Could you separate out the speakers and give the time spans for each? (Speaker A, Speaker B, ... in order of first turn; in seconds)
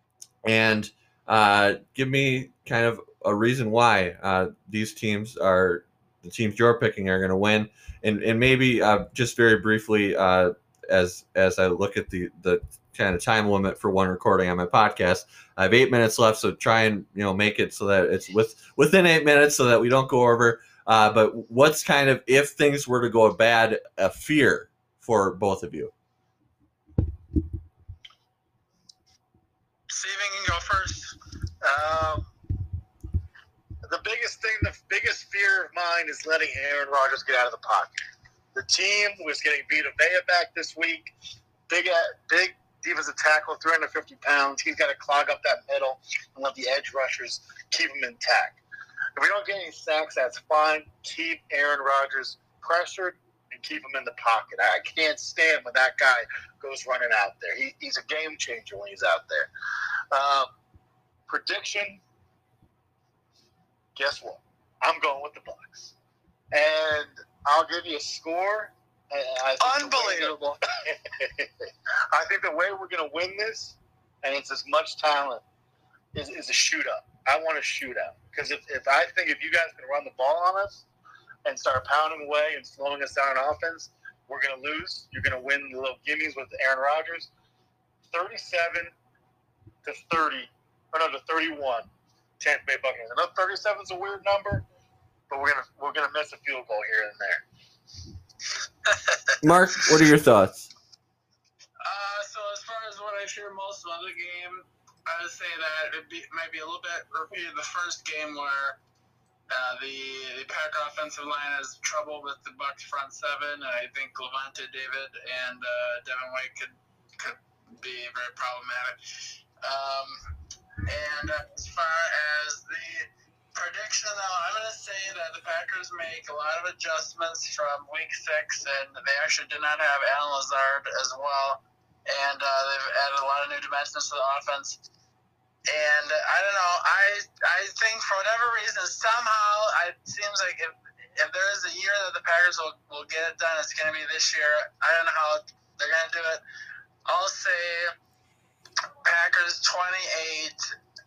Speaker A: 0.4-25.9, 99.4-100.7
Speaker B: 29.9-31.2, 69.6-70.6, 101.8-108.8, 109.5-119.0, 119.6-120.2, 120.9-134.8, 135.7-146.4, 147.1-147.9, 149.0-150.6
Speaker C: 31.6-32.3, 33.9-38.0, 38.5-41.1, 41.7-48.6, 49.2-59.5, 60.1-60.5, 61.3-62.0, 64.0-65.9, 66.5-75.4, 76.1-80.9, 81.5-87.3, 88.1-88.9, 89.8-91.9, 92.4-94.7, 95.3-97.4